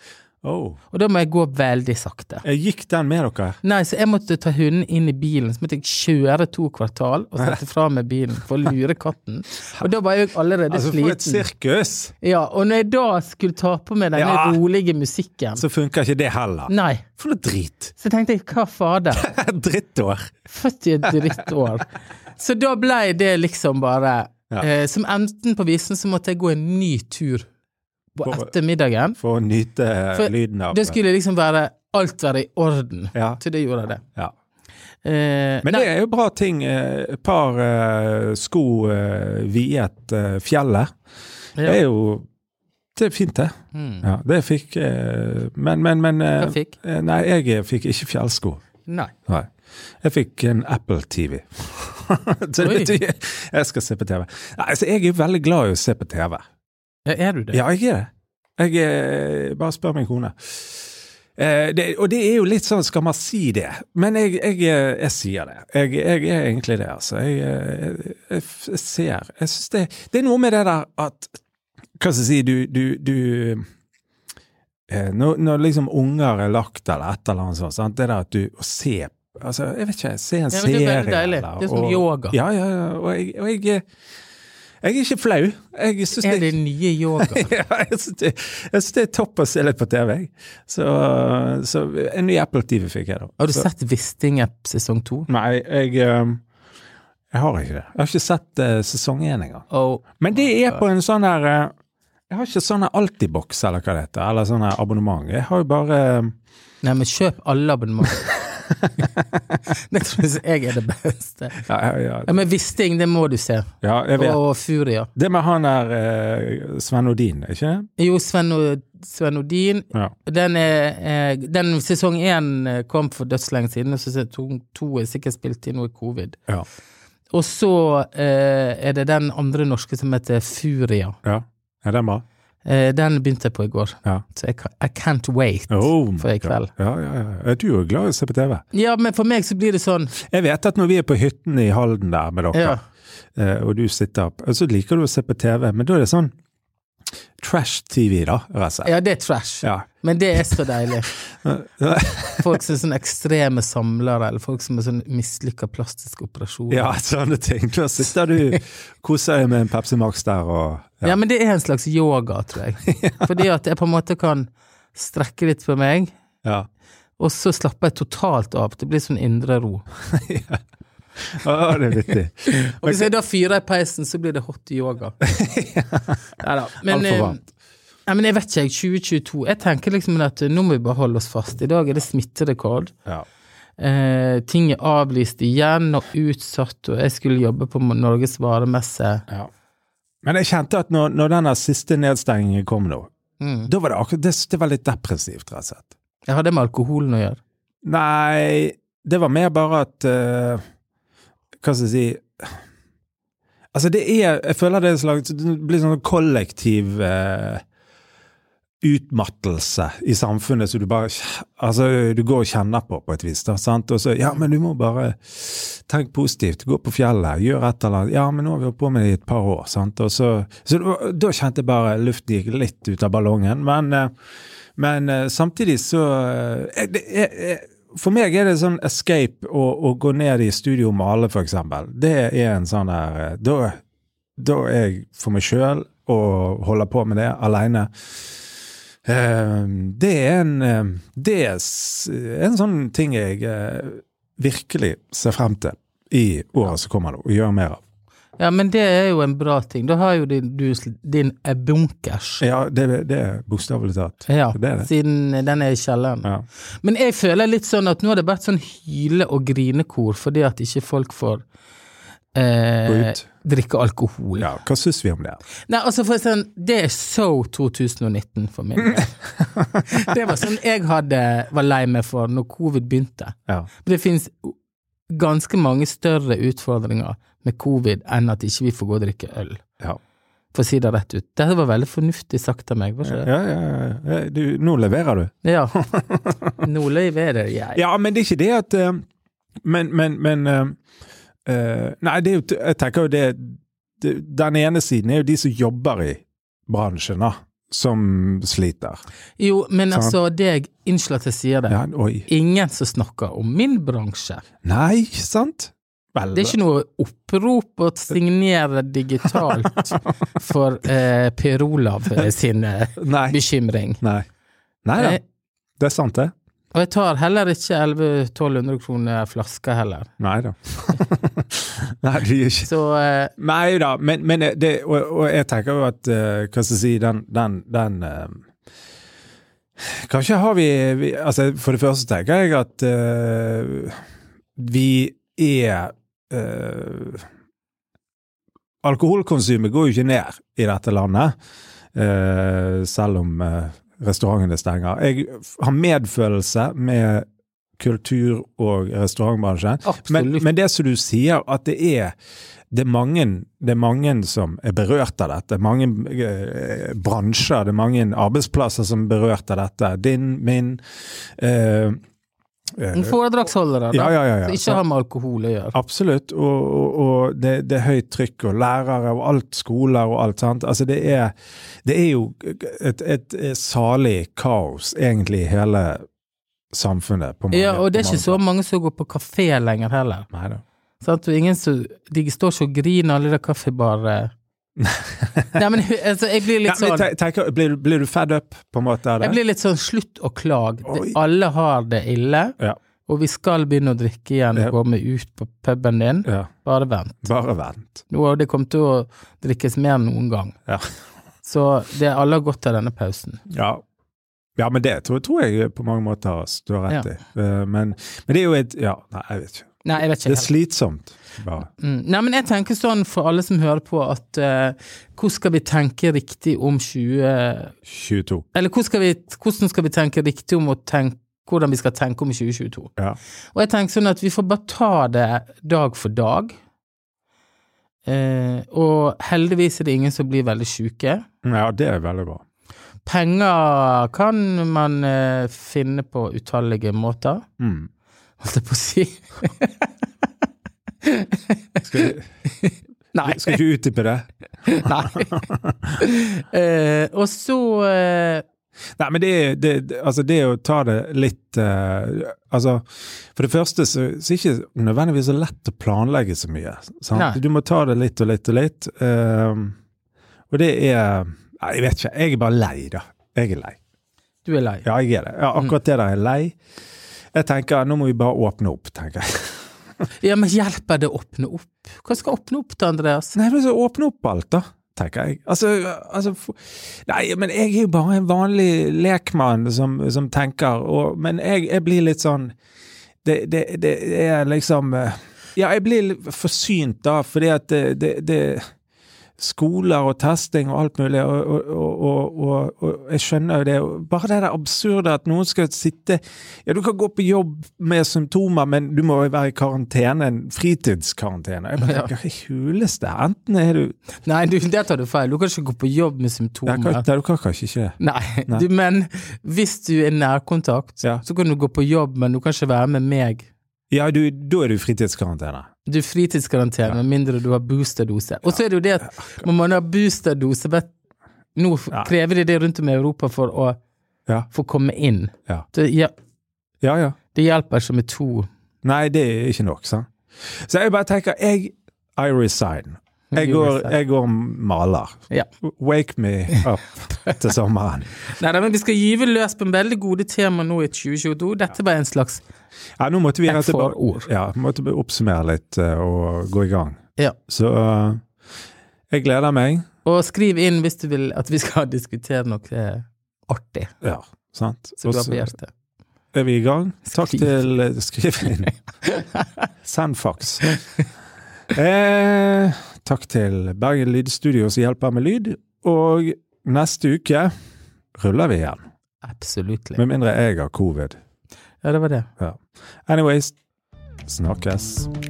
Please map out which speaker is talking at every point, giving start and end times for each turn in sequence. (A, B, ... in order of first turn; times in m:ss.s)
0:00.4-0:00.8 A
0:00.9-0:02.4 B
0:02.4-0:03.6 A
0:03.6-0:11.5 B
0:10.7-0:12.1 A
0:12.2-0:15.6 B
0:14.2-0:14.6 A
0:15.6-0:17.9 A
0:16.7-0:17.1 B
0:18.0-0:19.3 B
0:19.1-0:20.4 A
0:20.5-0:27.5 B
0:21.0-0:21.5 A
0:28.2-0:29.2 B
0:29.2-0:31.0 A
0:30.2-0:34.0 B
0:33.2-0:33.4 A
0:35.0-0:35.9 B
0:35.6-0:40.9 A
0:41.6-0:42.2 A
0:43.0-0:48.6 A
0:43.7-0:44.1 B
0:46.4-0:46.8 B
0:48.9-0:49.1 B
0:50.0-0:56.4 A
0:52.6-0:52.9 B
0:57.1-0:57.6 B
0:57.5-1:11.3 A
1:12.0-1:13.6 A
1:14.9-1:23.8 A
1:20.5-1:22.4 B
1:24.8-1:26.5 A
1:26.2-1:27.5 B
1:27.2-1:33.7 A
1:33.4-1:35.3 B
1:35.3-1:36.4 A
1:37.3-1:39.6 A
1:39.7-1:40.8 B
1:40.2-1:41.7 A
1:42.3-1:46.3 A
1:46.8-1:48.4 B
1:49.7-1:51.6 B
1:51.7-1:52.4 A
1:52.3-1:55.1 B
1:53.8-1:54.4 A
1:55.2-1:57.9 A
1:58.0-2:06.4 B
2:07.3-2:11.2 B
2:11.2-2:12.2 A
2:12.6-2:16.7 B
2:15.7-2:18.6 A
2:18.7-2:20.1 B
2:20.2-2:22.8 A
2:22.5-2:22.8 B
2:23.4-2:26.3 A
2:27.4-2:28.9 A
2:28.8-2:31.1 B
2:29.6-2:29.9 A
2:31.4-2:32.6 A
2:32.4-2:37.0 B
2:36.7-2:41.2 A
2:41.0-2:46.1 B
2:42.9-2:43.3 A
2:47.2-2:49.9 B
2:50.1-2:50.6 A
2:51.2-2:53.1 A
2:52.5-2:55.2 B
2:55.2-2:56.2 A
2:56.4-2:57.4 B
2:56.9-2:57.4 A
2:58.1-3:02.9 B
3:03.8-3:09.2 B
3:10.2-3:13.1 A
3:13.4-3:13.7 B
3:13.7-3:15.9 A
3:16.3-3:17.4 B
3:17.8-3:20.6 A
3:21.6-3:22.6 A
3:23.7-3:27.6 A
3:28.8-3:44.1 A
3:44.8-3:53.8 A
3:54.4-3:58.1 A
3:59.1-4:07.8 A
4:08.4-4:12.4 B
4:12.4-4:14.9 A
4:14.3-4:16.3 B
4:16.8-4:21.4 B
4:22.4-4:24.5 B
4:22.9-4:23.2 A
4:24.4-4:25.4 A
4:25.7-4:29.1 B
4:29.4-4:29.8 A
4:29.9-4:34.6 B
4:35.1-4:39.6 B
4:40.5-4:43.3 B
4:43.0-4:46.6 A
4:45.4-4:45.8 B
4:46.6-4:47.8 B
4:47.8-4:49.0 A
4:49.6-4:50.8 A
4:51.5-4:59.0 A
4:59.4-5:04.4 B
4:59.9-5:00.2 A
5:01.7-5:02.3 A
5:04.6-5:06.6 A
5:06.3-5:14.0 B
5:13.0-5:13.4 A
5:14.8-5:15.2 A
5:15.8-5:16.3 A
5:16.7-5:20.1 B
5:20.2-5:22.7 A
5:22.6-5:23.3 B
5:23.4-5:28.5 A
5:29.8-5:34.0 A
5:34.6-5:37.3 A
5:38.8-5:41.4 A
5:42.0-5:47.3 A
5:47.8-5:52.2 A
5:49.8-5:50.5 B
5:52.7-6:02.0 A
6:02.8-6:03.2 A
6:02.9-6:05.8 B
6:03.9-6:04.8 A
6:05.7-6:16.1 A
6:16.7-6:18.4 A
6:17.5-6:20.3 B
6:20.3-6:20.6 A
6:21.0-6:24.3 B
6:24.8-6:25.6 A
6:25.6-6:27.1 B
6:26.6-6:29.4 A
6:29.2-6:37.3 B
6:37.2-6:38.0 A
6:38.1-6:40.6 B
6:41.4-6:43.4 B
6:43.5-6:43.8 A
6:44.6-6:51.7 A
6:49.8-6:50.5 B
6:51.8-6:57.8 B
6:57.9-6:58.5 A
6:58.5-7:02.9 B
7:03.5-7:06.6 B
7:08.1-7:11.2 B
7:11.4-7:12.4 A
7:13.1-7:17.4 B
7:17.6-7:17.9 A
7:18.4-7:19.9 B
7:21.0-7:23.6 B
7:21.8-7:22.2 A
7:23.2-7:26.0 A
7:24.7-7:25.5 B
7:26.0-7:28.4 B
7:29.0-7:39.8 A
7:37.1-7:37.4 B
7:40.5-7:43.8 A
7:44.5-7:44.8 B
7:44.8-7:46.6 A
7:47.3-7:49.7 A
7:50.2-7:53.4 B
7:53.4-8:02.5 A
8:03.2-8:08.6 A
8:09.4-8:24.0 A
8:21.8-8:22.1 B
8:24.2-8:27.1 B
8:26.7-8:28.0 A
8:28.0-8:33.5 B
8:33.9-8:35.7 A
8:35.9-8:40.9 B
8:41.6-8:43.8 B
8:44.5-8:46.1 B
8:46.8-8:47.2 A
8:47.3-8:48.5 B
8:48.8-8:58.2 A
8:53.3-8:54.0 B
8:58.3-9:02.4 B
9:03.0-9:08.2 A
9:03.5-9:04.3 B
9:09.1-9:09.8 A
9:10.0-9:13.9 B
9:14.0-9:15.5 A
9:15.0-9:15.7 B
9:16.3-9:18.8 A
9:17.1-9:17.5 B
9:19.0-9:19.5 B
9:19.8-9:20.7 A
9:21.7-9:27.5 A
9:28.2-9:28.8 A
9:29.2-9:30.0 B
9:30.0-9:31.2 A
9:31.8-9:32.3 B
9:32.4-9:33.6 A
9:34.3-9:35.1 A